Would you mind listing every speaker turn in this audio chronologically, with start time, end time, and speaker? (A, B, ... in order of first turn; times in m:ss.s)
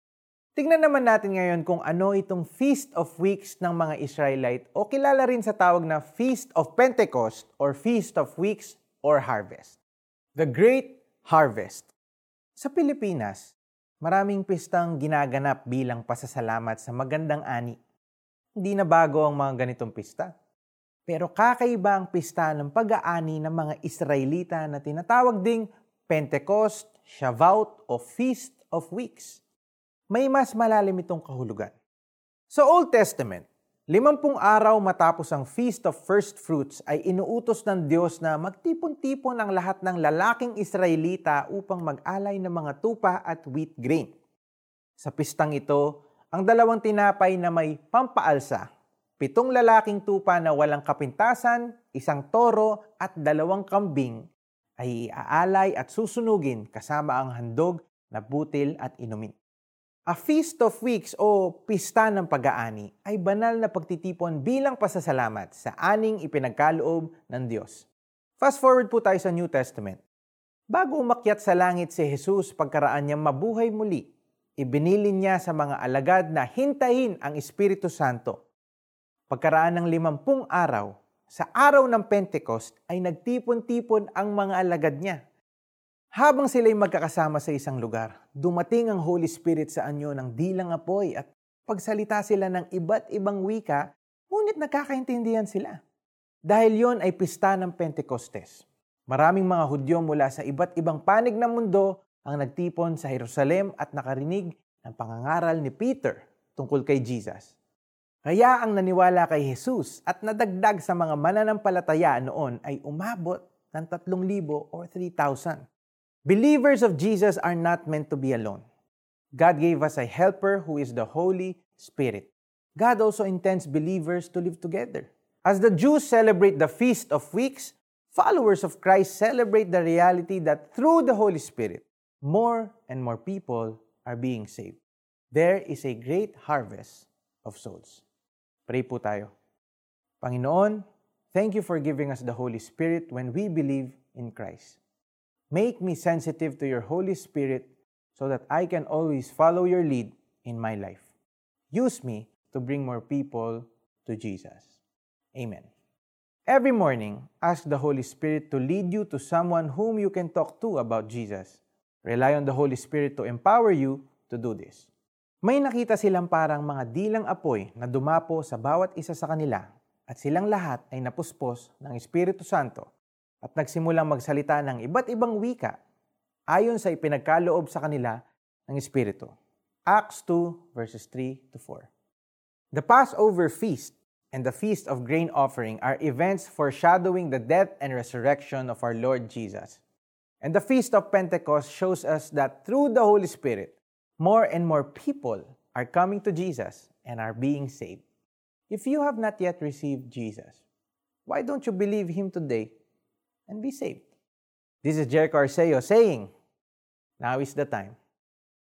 0:00.6-0:09.8 A
0:10.4-0:11.9 A
0:12.6-0:17.8 A
0:18.6-0:20.3 A
0:21.1-0:29.4 A
0:30.1-0:31.7 A
0:32.5-0:44.1 A
0:45.0-0:48.6 A
0:49.2-0:59.3 A
1:00.1-1:07.9 A
1:08.4-1:10.0 A
1:10.7-1:18.4 A
1:19.3-1:25.2 A
1:26.2-1:35.8 A
1:36.4-1:47.5 A
1:48.2-1:55.6 A
1:56.2-1:58.6 A
1:59.4-2:14.8 A
2:15.3-2:18.0 A
2:18.7-2:19.3 A
2:20.2-2:24.8 A
2:25.5-2:31.0 A
2:31.7-2:34.8 A
2:35.3-2:35.7 A
2:36.5-2:44.9 A
2:45.4-2:52.9 A
2:53.4-2:55.7 A
2:56.5-2:59.3 A
2:59.9-3:01.9 A
3:02.7-3:09.8 A
3:10.4-3:18.0 A
3:18.7-3:20.6 A
3:21.2-3:22.7 A
3:23.5-3:24.0 A
3:24.8-3:26.3 A
3:27.2-3:28.0 A